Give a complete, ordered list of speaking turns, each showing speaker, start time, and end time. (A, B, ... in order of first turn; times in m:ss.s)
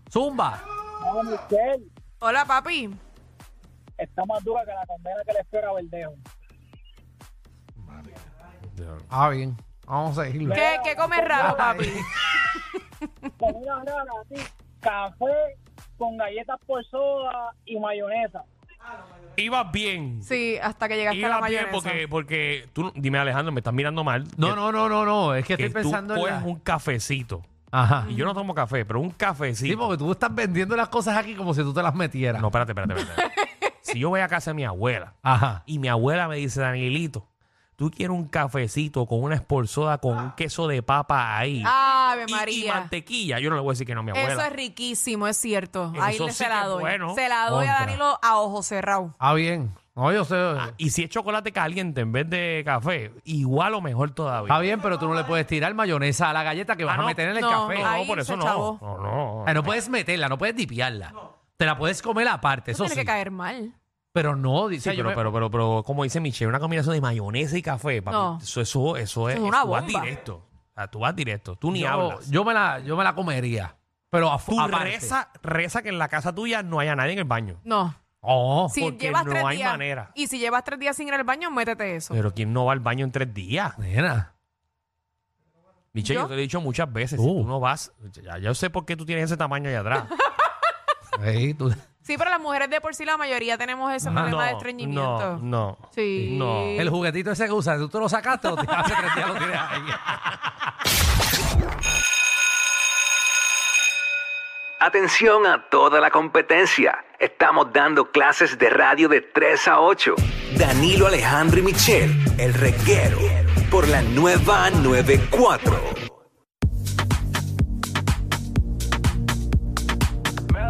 0:00.1-0:00.6 A
0:01.0-0:01.9 B
0:02.2-0:03.0 C
0:04.0-0:06.2 B
0:08.8-0:09.0 D
0:09.1-0:10.6 A
0:10.5-0:11.7 B
0:10.5-0:12.7 C
0:11.4-0:12.0 A
0:13.4-0:18.5 B
0:19.4-0:20.3 D
0:20.2-0:22.0 C
0:21.1-0:24.6 D
0:24.4-0:26.5 A
0:25.6-0:27.5 D
0:27.7-0:28.1 A
0:28.0-0:29.8 D
0:28.0-0:28.3 C
0:29.6-0:32.5 A
0:32.4-0:33.2 D
0:33.0-0:33.8 C
0:33.8-0:35.1 D
0:35.2-0:35.6 A
0:35.6-0:37.2 D
0:37.8-0:41.8 D
0:41.6-0:42.9 C
0:42.3-0:44.5 D
0:44.1-0:49.1 C
0:45.9-0:47.2 D
0:47.5-0:48.0 A
0:49.2-0:50.8 A
0:50.6-0:54.7 D
0:54.5-0:57.9 A
0:56.9-0:59.8 D
0:57.4-0:58.8 C
0:59.4-1:03.1 A
1:02.7-1:03.8 C
1:04.1-1:05.3 A
1:04.8-1:12.3 D
1:08.1-1:08.4 C
1:09.3-1:10.1 C
1:11.7-1:15.2 A
1:14.5-1:17.6 D
1:17.6-1:18.0 C
1:18.2-1:18.8 A
1:18.7-1:22.2 C
1:18.7-1:20.1 D
1:22.1-1:23.8 D
1:23.8-1:24.3 A
1:25.9-1:30.1 D
1:26.0-1:26.3 C
1:27.2-1:27.5 A
1:30.2-1:30.5 C
1:31.1-1:31.8 A
1:32.0-1:36.9 C
1:34.0-1:34.6 A
1:34.0-1:36.9 D
1:36.2-1:40.2 A
1:38.7-1:38.9 C
1:44.8-1:56.0 E